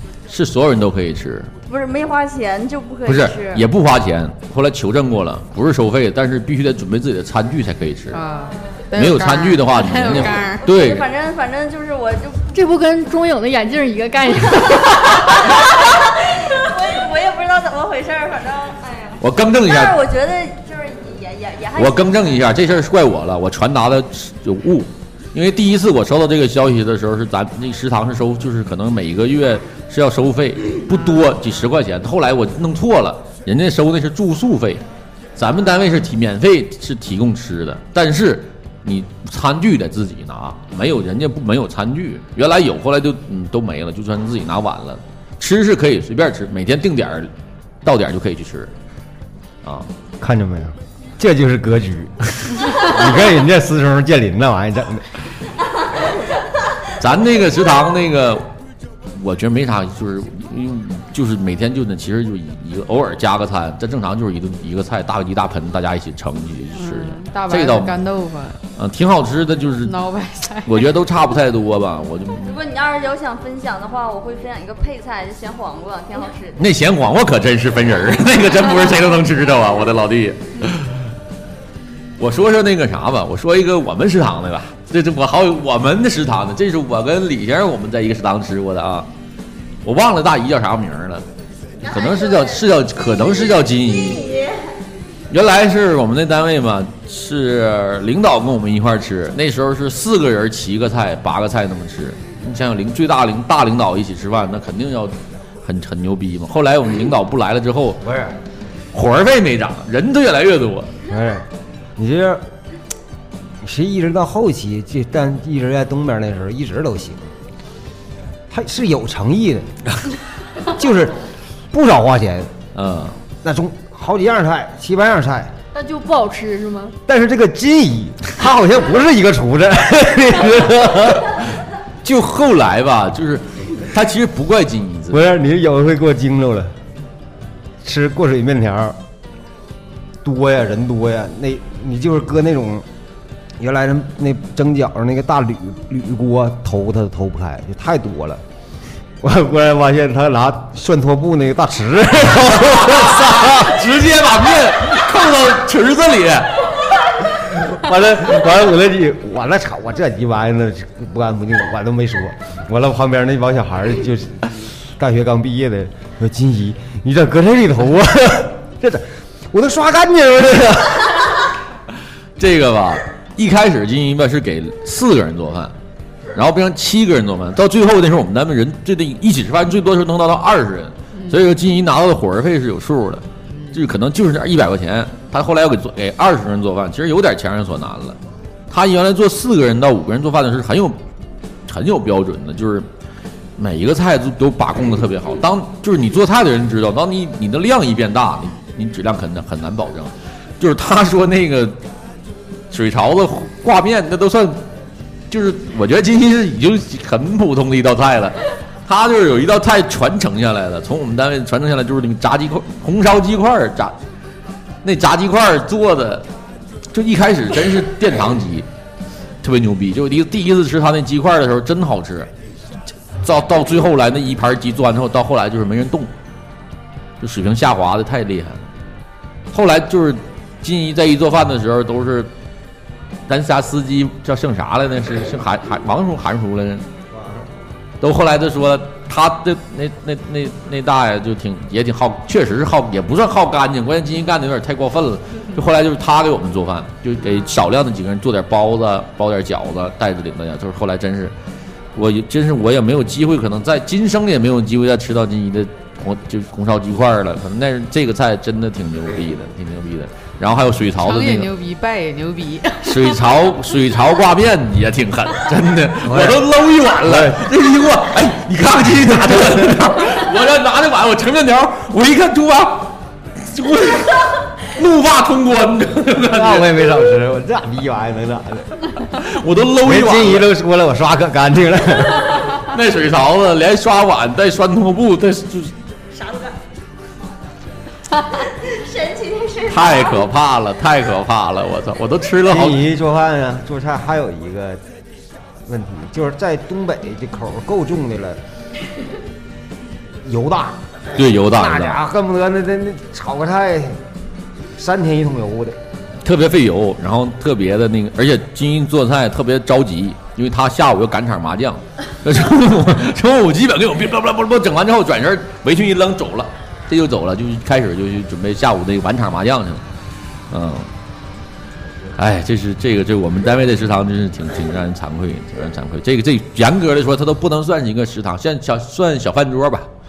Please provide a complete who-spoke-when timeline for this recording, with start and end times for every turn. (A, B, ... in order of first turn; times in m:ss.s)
0:00.3-0:01.5 A
0:01.7-0:03.6 B
0:03.0-0:08.2 A
0:08.1-0:10.6 C
0:08.9-0:11.1 A
0:10.6-0:12.5 B
0:12.5-0:15.3 D
0:15.2-0:22.6 B
0:19.2-0:20.0 A
0:21.8-0:34.8 A
0:35.4-0:47.3 A
0:47.8-0:48.7 A
0:49.6-0:49.9 A
0:50.2-0:55.0 E
0:57.0-0:58.5 A
0:59.1-1:08.0 A
1:06.8-1:08.6 C
1:08.8-1:10.0 A
1:09.8-1:10.9 C
1:10.6-1:12.6 A
1:12.4-1:16.6 B
1:16.6-1:21.0 A
1:22.2-1:29.1 A
1:29.8-1:31.2 A
1:31.8-1:32.6 B
1:31.8-1:34.2 A
1:33.4-1:34.6 B
1:35.3-1:48.0 A
1:48.0-1:48.4 E
1:48.9-1:50.9 A
1:51.1-1:51.4 E
1:52.0-1:52.4 E
1:53.6-1:57.3 E
1:58.5-1:59.7 E
2:00.6-2:01.2 E
2:01.7-2:02.5 E
2:02.7-2:03.2 A
2:03.4-2:05.5 E
2:05.7-2:07.0 D
2:07.1-2:11.4 E
2:12.0-2:15.2 A
2:15.1-2:16.7 E
2:17.8-2:19.0 E
2:20.2-2:22.8 E
2:23.6-2:28.4 E
2:29.2-2:33.7 E
2:32.6-2:36.6 A
2:37.3-2:51.4 E
2:52.4-2:55.7 A
2:56.3-3:08.2 A
3:01.2-3:01.4 C
3:08.7-3:11.0 A
3:11.6-3:12.9 A
3:13.6-3:21.8 A
3:22.7-3:24.6 A
3:25.3-3:33.9 A
3:34.8-3:36.2 A
3:36.9-3:38.7 A
3:39.4-3:42.3 A
3:43.2-3:46.1 A
3:47.2-3:48.6 A
3:49.5-3:52.3 A
3:53.3-3:56.8 A
3:57.1-3:57.4 E
3:58.0-4:11.3 A
4:11.9-4:21.5 A
4:21.0-4:23.2 C
4:22.8-4:37.0 A
4:26.0-4:26.5 E
4:27.0-4:27.5 E
4:36.2-4:38.8 E
4:39.1-4:40.5 A
4:39.8-4:42.4 E
4:42.5-4:45.7 A
4:46.1-4:46.6 B
4:48.2-4:50.2 B
4:49.7-4:52.8 A
4:52.4-4:54.8 E
4:55.6-4:58.4 E
5:00.2-5:04.0 E
5:01.1-5:02.0 A
5:04.8-5:05.8 E
5:06.2-5:19.8 A
5:20.5-5:20.9 A
5:22.2-5:29.9 A